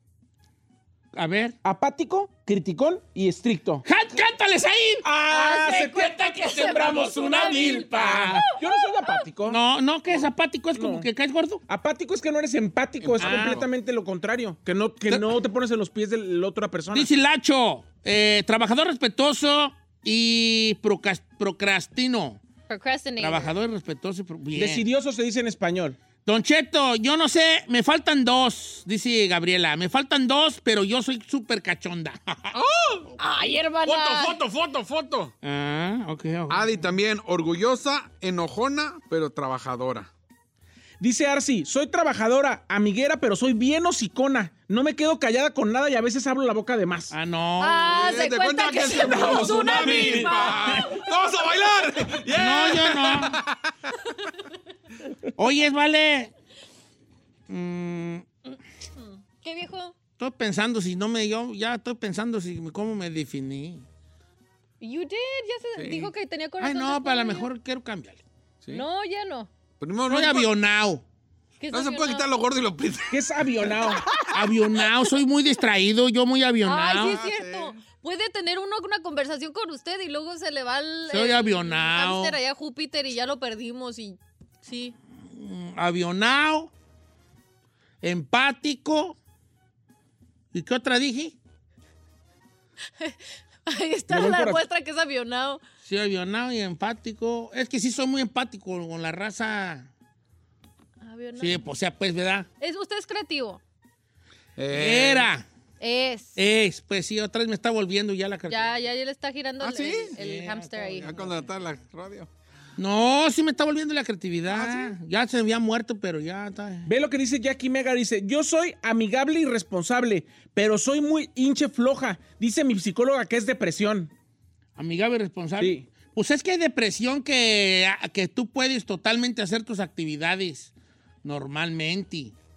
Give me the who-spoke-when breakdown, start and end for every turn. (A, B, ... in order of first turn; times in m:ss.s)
0:01.1-0:01.6 A
0:01.6-0:03.8 B
0:03.8-0:08.4 A
0:05.0-0:09.6 B
0:05.5-0:08.6 C
0:09.4-0:11.6 A
0:10.7-0:11.1 B
0:11.7-0:17.1 B
0:13.1-0:13.6 A
0:13.2-0:13.5 D
0:16.9-0:22.4 A
0:22.7-0:23.5 C
0:23.2-0:24.8 A
0:24.5-0:26.0 B
0:26.2-0:33.2 A
0:32.5-0:33.1 D
0:33.2-0:34.4 C
0:33.8-0:35.3 D
0:35.4-0:36.9 A
0:36.5-0:40.1 D
0:41.0-0:47.1 B
0:47.1-0:48.2 A
0:47.6-0:51.0 C
0:47.9-0:53.9 D
0:49.4-0:50.9 A
0:52.3-0:53.4 A
0:55.4-0:56.3 A
0:57.5-0:58.3 A
0:59.0-1:00.0 C
1:00.2-1:03.8 A
1:04.8-1:07.5 C
1:05.7-1:06.1 D
1:06.6-1:08.2 A
1:08.7-1:09.5 C
1:09.8-1:10.5 D
1:10.1-1:11.0 A
1:11.6-1:12.3 C
1:11.7-1:13.2 D
1:13.1-1:14.0 B
1:14.3-1:17.2 A
1:16.6-1:24.9 C
1:17.0-1:17.8 D
1:21.1-1:22.3 A
1:25.3-1:26.7 A
1:28.0-1:29.2 A
1:30.5-1:31.4 A
1:33.0-1:35.6 C
1:34.1-1:34.6 B
1:35.8-1:39.9 A
1:41.0-1:41.6 C
1:41.4-1:42.5 A
1:42.6-1:43.6 C
1:44.6-1:45.3 D
1:44.7-1:45.4 A
1:45.8-1:46.4 C
1:46.4-1:48.7 A
1:48.5-1:51.1 C
1:49.6-1:50.1 D
1:50.1-1:51.5 A
1:50.9-1:52.3 D
1:52.8-1:56.9 A
1:54.5-1:54.9 D
1:56.8-2:04.1 B
2:04.8-2:10.7 A
2:05.6-2:05.8 B
2:11.2-2:12.3 A